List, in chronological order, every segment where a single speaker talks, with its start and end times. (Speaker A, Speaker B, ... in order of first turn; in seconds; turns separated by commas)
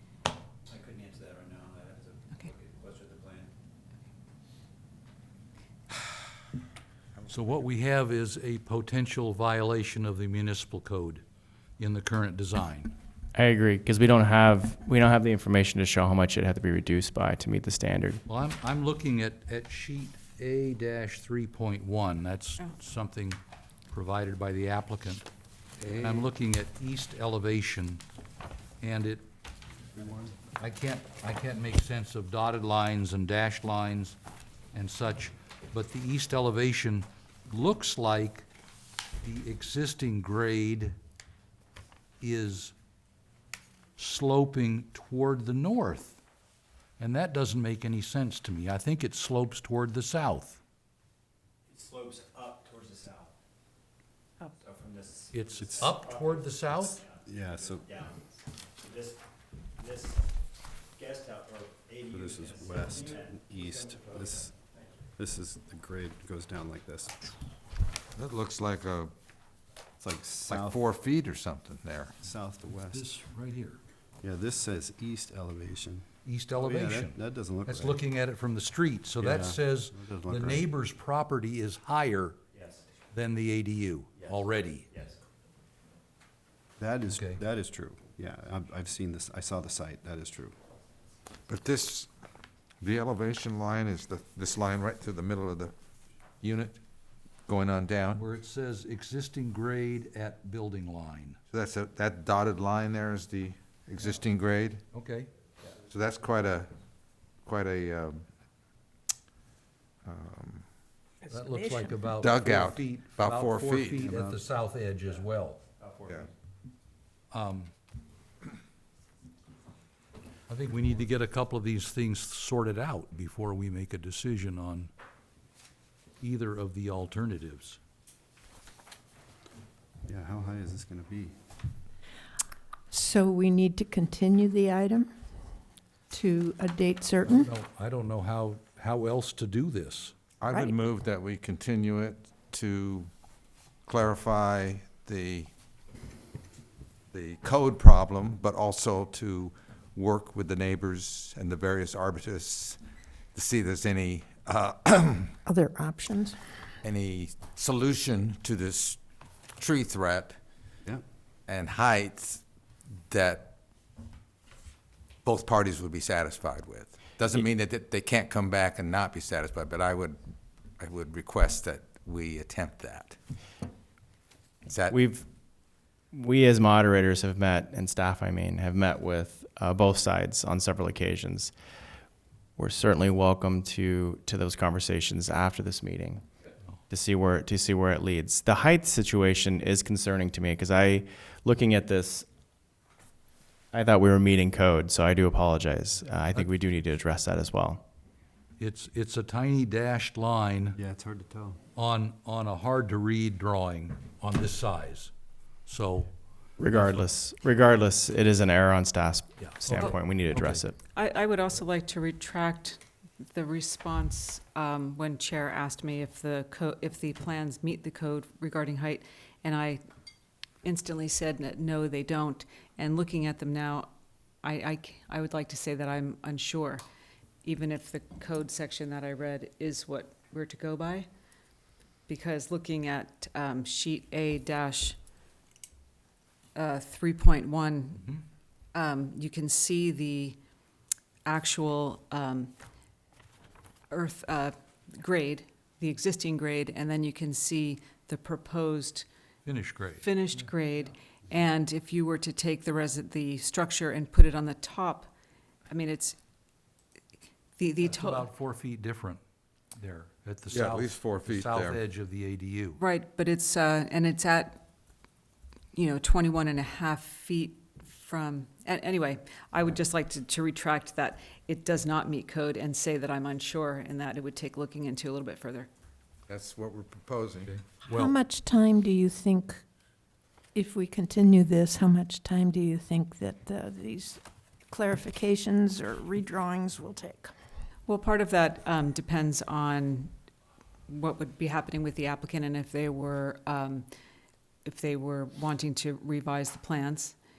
Speaker A: 0.7-3.5, Speaker B: 7.3-11.2, Speaker B: 11.8-12.9, Speaker C: 13.3-18.2, Speaker B: 18.2-25.3, Speaker B: 25.8-28.0, Speaker B: 28.8-29.2, Speaker D: 29.9-30.3, Speaker B: 30.6-34.2, Speaker B: 34.7-38.5, Speaker B: 39.2-41.0, Speaker B: 42.2-42.7, Speaker B: 44.0-46.2, Speaker B: 47.0-50.6, Speaker A: 51.7-53.3, Speaker A: 54.6-56.4, Speaker B: 55.3-57.0, Speaker D: 57.2-57.9, Speaker A: 57.9-58.2, Speaker A: 58.8-59.2, Speaker A: 59.8-60.3, Speaker A: 61.0-63.2, Speaker D: 62.1-64.5, Speaker D: 65.2-67.3, Speaker E: 68.1-69.1, Speaker D: 70.0-70.8, Speaker E: 70.5-72.1, Speaker D: 72.2-73.1, Speaker B: 72.8-73.8, Speaker D: 74.2-76.0, Speaker B: 76.2-82.4, Speaker D: 76.6-78.0, Speaker D: 79.2-80.7, Speaker A: 82.5-82.8, Speaker B: 83.1-84.9, Speaker D: 86.8-90.5, Speaker B: 87.1-87.4, Speaker E: 91.5-92.1, Speaker E: 92.8-95.7, Speaker E: 96.4-96.8, Speaker E: 97.5-98.2, Speaker B: 98.1-101.4, Speaker E: 101.5-104.8, Speaker B: 104.9-105.3, Speaker E: 105.8-106.7, Speaker E: 107.5-108.2, Speaker E: 110.0-110.7, Speaker B: 111.3-115.6, Speaker F: 111.3-112.0, Speaker E: 112.2-114.1, Speaker D: 114.0-114.4, Speaker B: 117.3-117.7, Speaker B: 120.5-124.9, Speaker B: 126.2-127.8, Speaker D: 130.1-131.3, Speaker F: 132.9-135.1, Speaker F: 136.1-137.5, Speaker B: 137.2-140.1, Speaker E: 140.4-143.1, Speaker E: 143.9-145.5, Speaker E: 147.1-152.8, Speaker E: 153.3-155.3, Speaker F: 155.4-156.4, Speaker E: 156.8-159.0, Speaker E: 159.6-160.4, Speaker E: 161.5-162.4, Speaker E: 163.1-163.6, Speaker E: 165.2-170.2, Speaker E: 170.8-173.2, Speaker E: 174.7-175.0, Speaker C: 174.9-175.2, Speaker C: 176.1-181.5, Speaker C: 182.6-186.2, Speaker C: 186.9-192.2, Speaker C: 193.7-197.8, Speaker B: 198.6-200.8, Speaker D: 200.7-201.6, Speaker B: 201.7-205.1, Speaker B: 205.7-206.1, Speaker C: 206.6-210.8, Speaker B: 206.6-207.1, Speaker B: 209.4-210.6, Speaker G: 210.9-212.8, Speaker G: 213.3-219.8, Speaker G: 220.6-223.9, Speaker G: 224.4-226.8, Speaker G: 227.4-231.1, Speaker G: 232.1-235.0, Speaker G: 236.5-238.1, Speaker G: 238.7-240.4, Speaker G: 241.2-242.5, Speaker G: 243.9-249.1, Speaker B: 249.4-250.1, Speaker G: 250.0-255.1, Speaker G: 255.7-256.2, Speaker G: 257.6-258.3, Speaker B: 257.8-259.2, Speaker B: 259.8-262.8, Speaker E: 260.5-261.8, Speaker G: 262.8-264.6, Speaker G: 265.7-275.7, Speaker E: 276.3-277.5, Speaker B: 277.4-278.2, Speaker F: 277.9-279.6, Speaker F: 280.5-287.3, Speaker G: 287.9-290.1, Speaker G: 290.9-293.9, Speaker G: 294.6-297.1